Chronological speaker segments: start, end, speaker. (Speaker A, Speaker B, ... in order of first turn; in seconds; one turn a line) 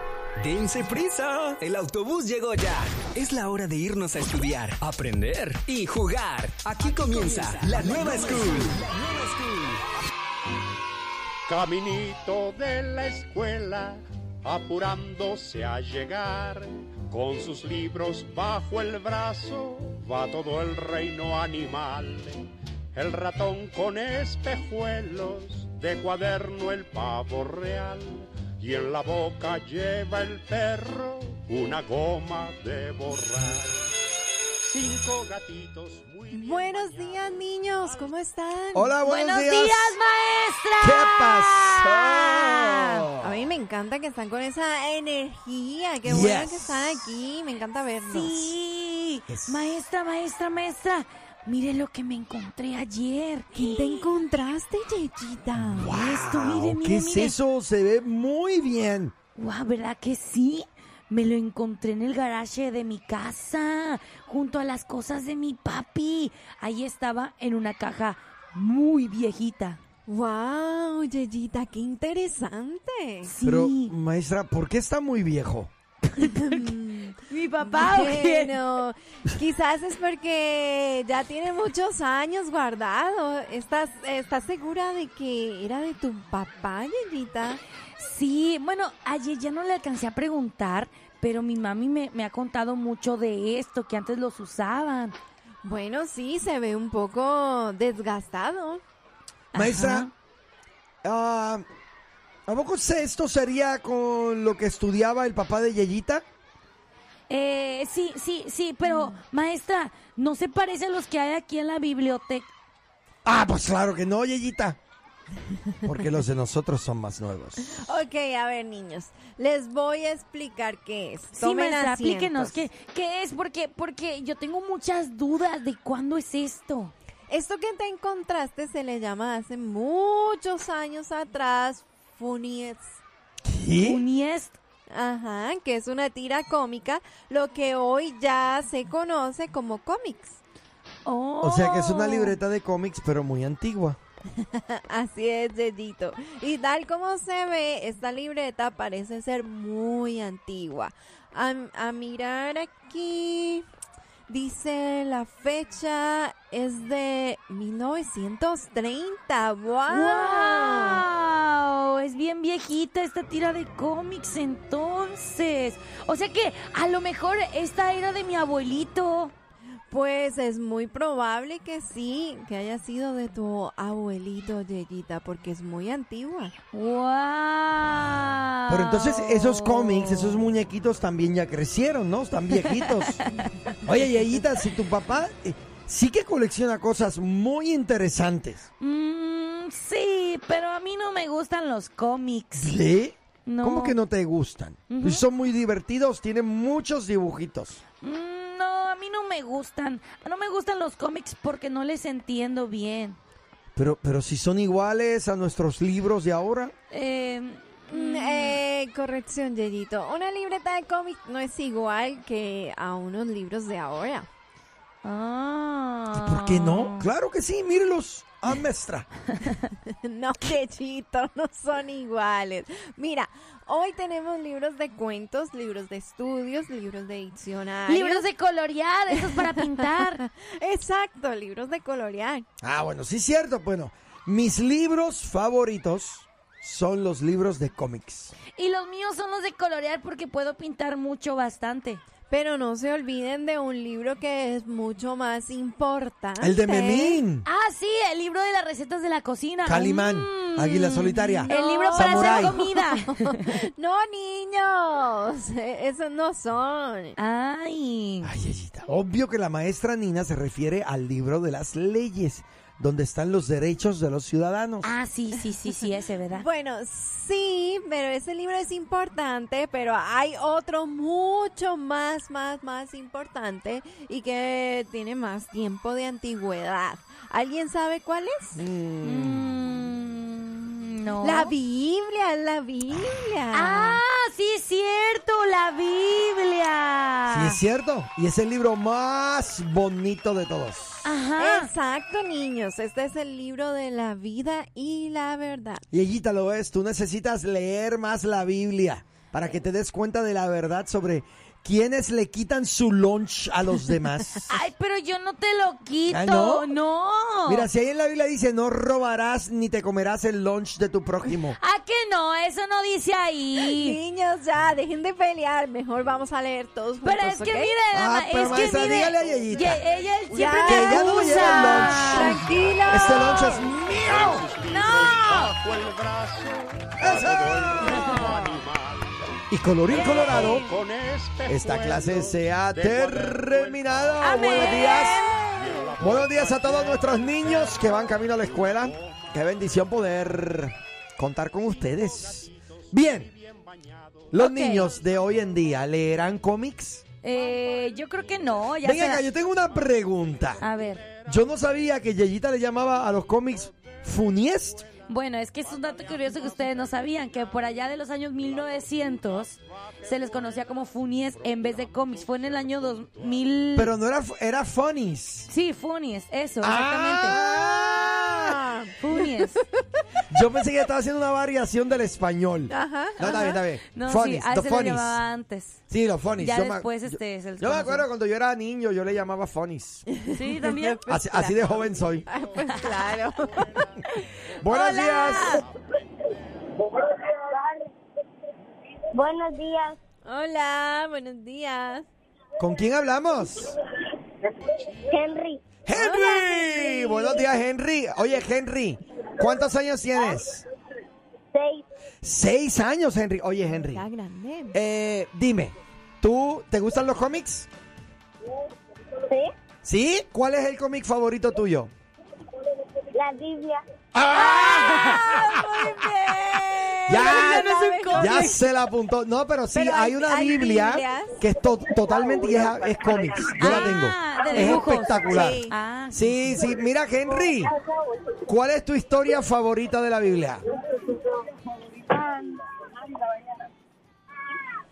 Speaker A: 0.4-9.8
Speaker B: 11.5-33.8
Speaker B: 34.6-38.1
Speaker C: 36.3-39.0
Speaker D: 38.7-40.0
Speaker E: 39.0-43.0
Speaker D: 40.8-43.3
Speaker C: 43.2-48.5
Speaker D: 46.0-47.2
Speaker E: 48.1-54.0
Speaker D: 49.3-49.7
Speaker C: 53.5-56.1
Speaker D: 55.6-59.1
Speaker E: 56.0-57.4
Speaker E: 59.4-69.8
Speaker C: 70.1-73.3
Speaker E: 73.2-73.9
Speaker D: 73.4-75.7
Speaker E: 76.1-78.6
Speaker C: 76.3-87.6
Speaker E: 88.0-95.2
Speaker C: 95.6-98.8
Speaker E: 99.5-100.1
Speaker D: 99.5-100.1
Speaker D: 101.0-101.6
Speaker D: 102.5-106.2
Speaker E: 107.3-112.5
Speaker C: 108.9-109.1
Speaker D: 113.2-114.8
Speaker D: 115.8-117.8
Speaker C: 117.7-122.6
Speaker E: 121.3-126.9
Speaker C: 127.3-133.0
Speaker D: 133.4-134.0
Speaker E: 133.8-134.6
Speaker C: 134.9-140.4
Speaker E: 141.0-142.4
Speaker D: 141.4-144.0
Speaker C: 144.8-153.6
Speaker C: 154.3-161.0
Speaker E: 159.9-169.3
Speaker C: 169.9-176.5
Speaker E: 176.7-180.4
Speaker D: 178.7-183.2
Speaker E: 182.6-183.5
Speaker D: 183.8-188.7
Speaker E: 188.8-192.7
Speaker D: 192.5-197.8
Speaker E: 193.4-194.0
Speaker E: 194.9-195.2
Speaker E: 198.0-203.2
Speaker D: 203.7-206.7
Speaker E: 206.9-208.6
Speaker C: 207.9-214.3
Speaker E: 215.0-217.1
Speaker D: 216.1-219.1
Speaker C: 220.1-228.3
Speaker E: 227.9-230.2
Speaker C: 229.1-232.4
Speaker D: 232.6-238.3
Speaker E: 238.6-242.0
Speaker C: 242.3-247.2
Speaker D: 246.4-247.4
Speaker E: 247.4-253.4
Speaker D: 249.6-252.6
Speaker C: 251.5-257.1
Speaker E: 257.2-258.3
Speaker D: 258.2-264.9
Speaker E: 264.8-266.4
Speaker C: 266.3-278.6
Speaker D: 278.5-279.5
Speaker E: 279.0-281.5
Speaker C: 281.2-284.0
Speaker E: 283.5-287.6
Speaker D: 287.3-291.1
Speaker E: 291.0-291.7
Speaker C: 291.4-295.8
Speaker D: 295.9-304.5
Speaker E: 304.5-307.7
Speaker D: 306.1-306.7
Speaker D: 307.4-311.6
Speaker E: 311.5-314.0
Speaker C: 313.6-317.8
Speaker E: 317.0-322.5
Speaker D: 317.9-319.8
Speaker B: 319.0-339.4
Speaker C: 320.3-323.7
Speaker D: 320.7-324.5
Speaker E: 324.7-325.5
Speaker D: 327.0-328.3
Speaker E: 327.8-328.4
Speaker D: 329.5-330.6
Speaker E: 329.9-330.7
Speaker D: 331.4-335.3
Speaker E: 334.2-335.8
Speaker D: 336.0-343.3
Speaker B: 341.6-345.8
Speaker D: 344.3-347.0
Speaker E: 344.3-344.9
Speaker E: 347.2-349.2
Speaker B: 347.3-351.9
Speaker D: 348.8-350.6
Speaker E: 350.6-351.1
Speaker D: 351.2-354.9
Speaker B: 353.0-354.0
Speaker B: 354.8-357.9
Speaker E: 355.1-363.9
Speaker B: 358.4-363.5
Speaker D: 363.7-365.5
Speaker E: 365.5-367.4
Speaker D: 366.6-368.5
Speaker C: 367.4-369.6
Speaker E: 369.0-369.6
Speaker D: 370.3-375.2
Speaker C: 372.7-373.6
Speaker E: 373.9-375.8
Speaker D: 375.9-380.0
Speaker E: 376.4-378.1
Speaker C: 380.2-381.0
Speaker E: 380.3-381.5
Speaker D: 381.1-382.3
Speaker B: 381.5-384.6
Speaker C: 382.3-384.2
Speaker D: 384.6-385.6
Speaker E: 384.7-385.6
Speaker B: 385.1-385.6
Speaker F: 386.8-387.8
Speaker F: 389.1-390.0
Speaker C: 390.2-392.1
Speaker D: 392.6-393.7
Speaker F: 395.1-395.6
Speaker D: 395.9-400.6
Speaker C: 395.9-397.4
Speaker F: 401.5-401.8
Speaker D: 402.2-404.0
Speaker C: 403.7-404.8
Speaker D: 404.7-407.7
Speaker D: 409.8-411.9
Speaker F: 413.1-413.8
Speaker D: 414.1-415.2
Speaker E: 414.3-415.5
Speaker C: 414.4-418.6
Speaker E: 417.1-418.6
Speaker D: 417.1-427.7
Speaker C: 419.7-421.4
Speaker E: 423.6-426.3
Speaker C: 424.6-425.7
Speaker D: 428.4-430.6